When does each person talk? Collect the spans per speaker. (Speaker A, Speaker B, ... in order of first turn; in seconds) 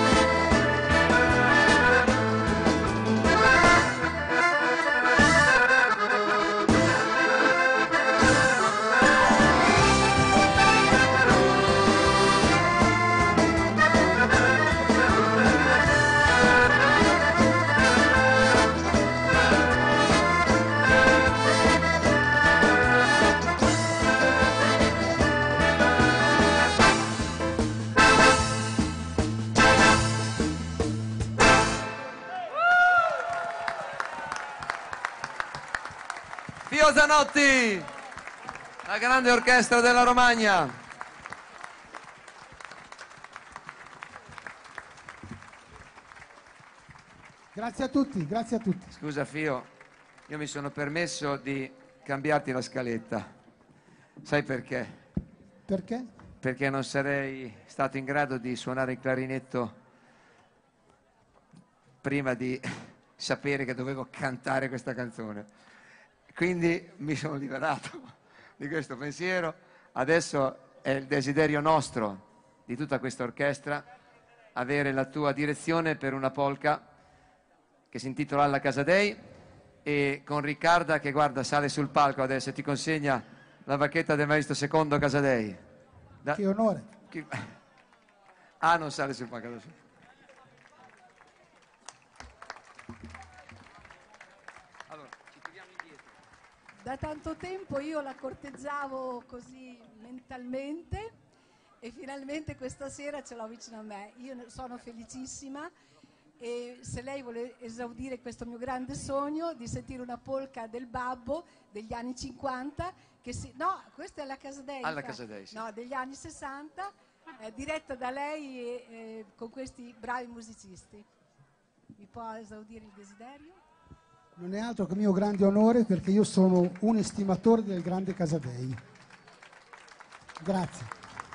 Speaker A: 36.7-37.9, 38.8-40.7, 48.9-49.7, 50.3-53.3, 54.2-55.0, 56.4-59.7, 62.0-65.5, 66.3-73.9, 74.5-76.8, 77.9-79.2, 79.8-85.6, 87.1-87.5, 88.6-89.8, 94.9-95.3, 114.8-115.6
Speaker B: 47.5-48.9, 55.7-56.1, 86.3-86.8, 124.4-128.8, 130.4-130.9
Speaker C: 96.8-101.1, 101.8-105.7, 106.4-121.0, 122.0-123.6